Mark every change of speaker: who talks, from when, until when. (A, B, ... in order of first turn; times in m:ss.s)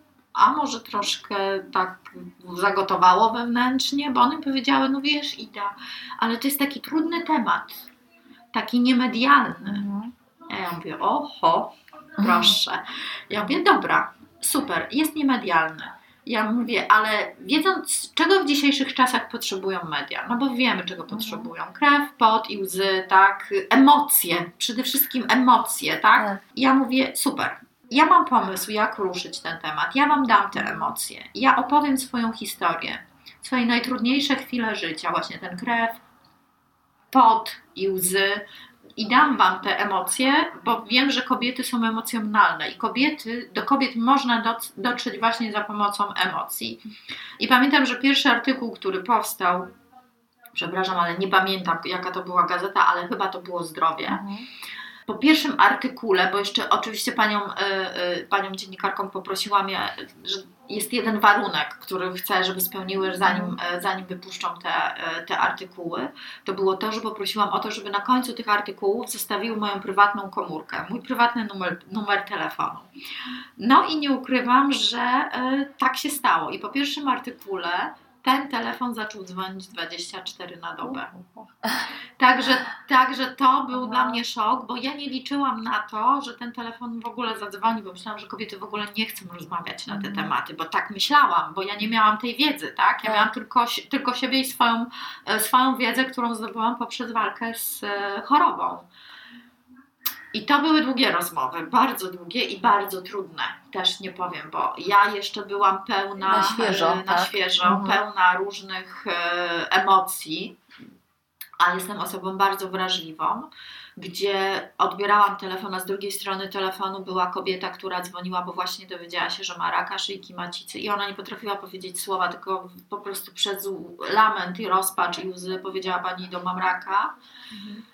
0:00.3-0:07.9 A
0:08.5-0:09.8 A
0:09.6-0:10.1 B
0:10.5-0:36.0 A
0:12.2-0:12.5 B
0:21.1-0:21.5 B
0:37.1-0:38.4 A
0:39.0-0:46.8 A
0:47.4-0:49.7 A
0:50.5-0:54.2 A
0:54.1-0:54.4 B
0:55.1-1:12.9 A
1:03.3-1:03.6 B
1:13.6-1:21.2 A
1:20.8-1:21.8 B
1:22.2-1:38.9 A
1:23.8-1:24.2 B
1:29.9-1:30.3 B
1:33.0-1:33.3 B
1:40.3-1:50.6 A
1:46.2-1:48.0 B
1:51.6-2:07.1 A